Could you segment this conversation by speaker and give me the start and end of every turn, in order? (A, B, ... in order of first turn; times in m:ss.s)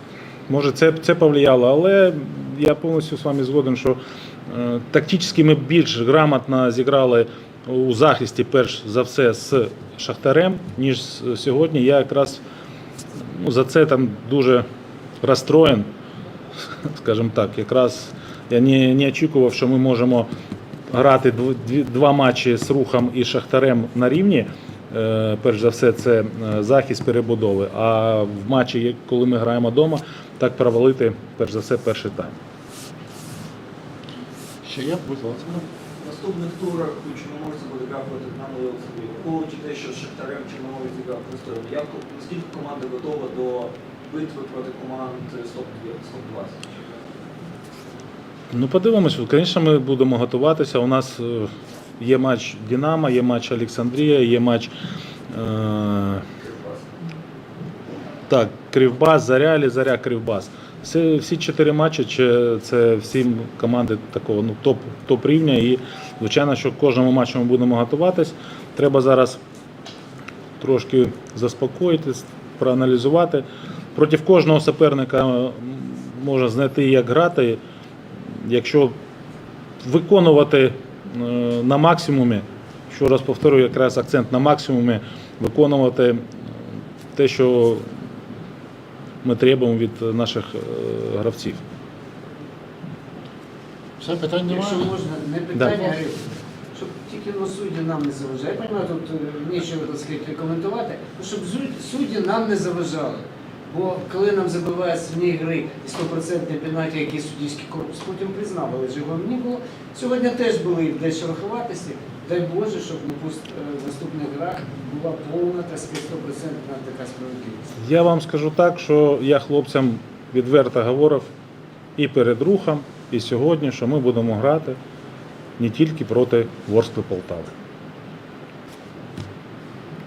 0:00.5-0:12.4 A
0:13.2-0:14.6 A
0:15.2-0:15.9 A
0:16.8-0:20.3 A
0:20.9-0:32.4 A
0:34.6-0:35.6 B
0:36.0-0:46.6 C
0:48.5-0:54.7 A
0:55.3-0:56.2 A
0:58.3-1:09.4 A
1:10.6-1:17.6 A
1:18.3-1:19.0 A
1:19.8-1:26.3 A
1:27.1-1:27.9 A
1:29.2-1:31.6 A
1:34.0-1:34.9 B
1:34.5-1:57.7 D
1:35.5-1:36.0 A
1:57.8-2:01.3 A
2:02.0-2:04.8 A
2:05.6-2:07.5 A